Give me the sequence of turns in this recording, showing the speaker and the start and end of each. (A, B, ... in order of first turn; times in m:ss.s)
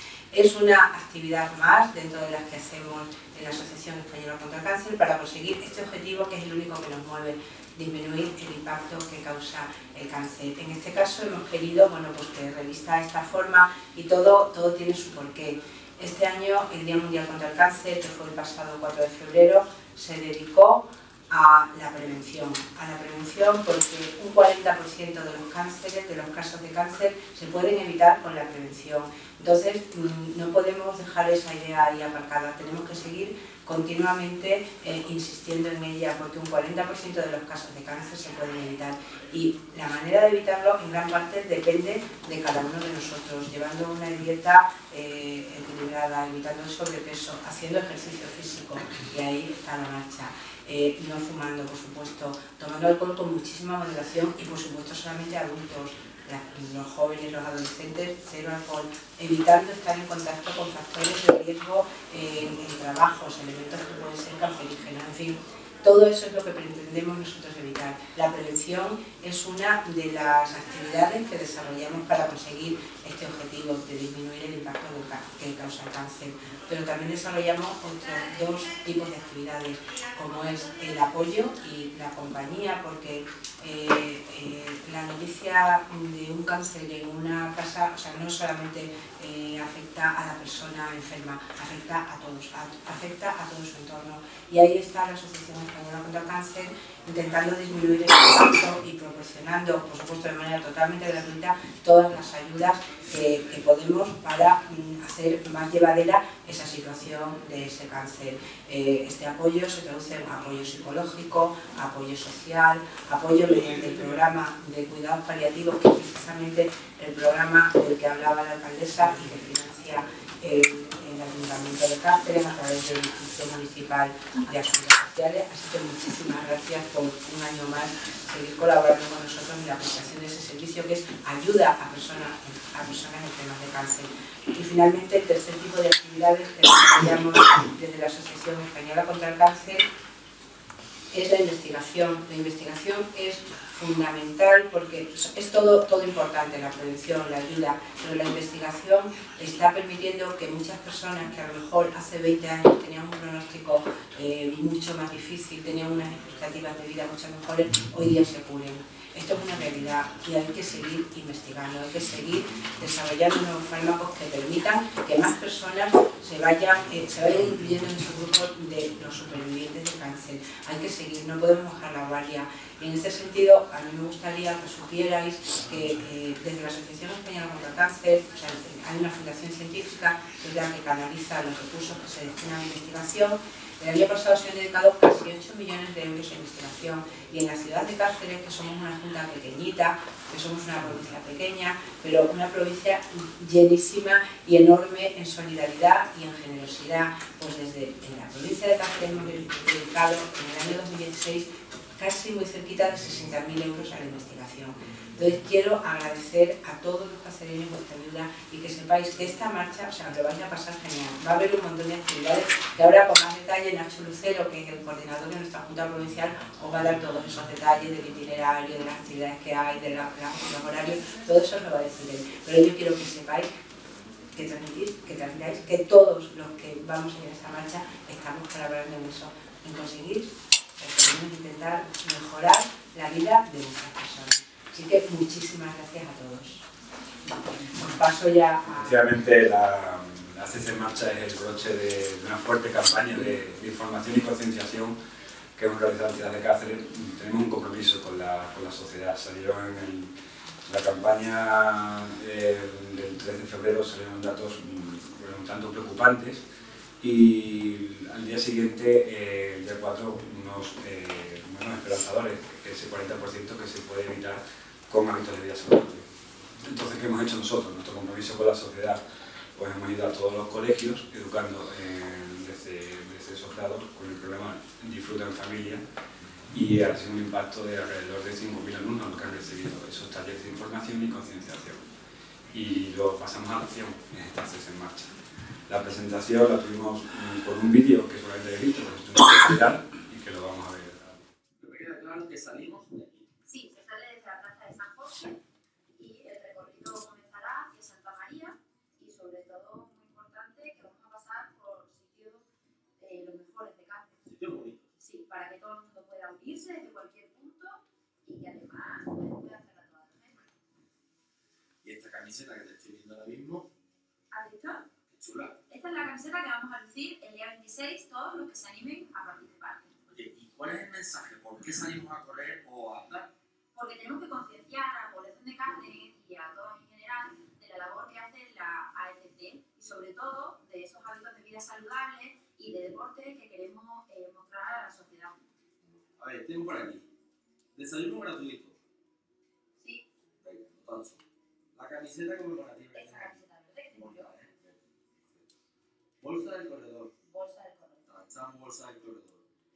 0:00.3-2:19.8 A
2:21.1-3:43.5 A
3:44.3-3:56.6 A
3:57.5-3:59.0 A
3:58.6-4:05.0 B
4:05.6-4:10.1 B
4:10.6-4:16.4 B
4:17.0-4:26.1 B
4:26.6-4:29.0 B
4:29.5-4:35.8 B
4:36.5-4:41.8 B
4:42.5-4:45.1 B
4:45.7-4:51.2 B
4:51.6-4:53.2 C
4:53.4-4:55.4 D
4:56.0-5:02.4 D
5:03.0-5:04.2 D
5:04.3-5:04.8 C
5:05.0-5:10.4 D
5:11.8-5:13.7 C
5:14.3-5:14.8 D
5:15.1-5:15.5 C
5:15.7-5:19.9 D
5:20.1-5:23.3 C
5:23.7-5:35.4 D
5:36.2-5:37.0 C
5:37.7-5:38.7 C
5:39.8-5:40.0 D
5:40.4-5:41.2 C
5:41.7-5:43.4 C
5:42.9-5:44.3 D
5:44.0-5:44.8 C
5:46.2-5:47.1 C
5:47.2-5:48.1 D
5:48.1-5:49.4 C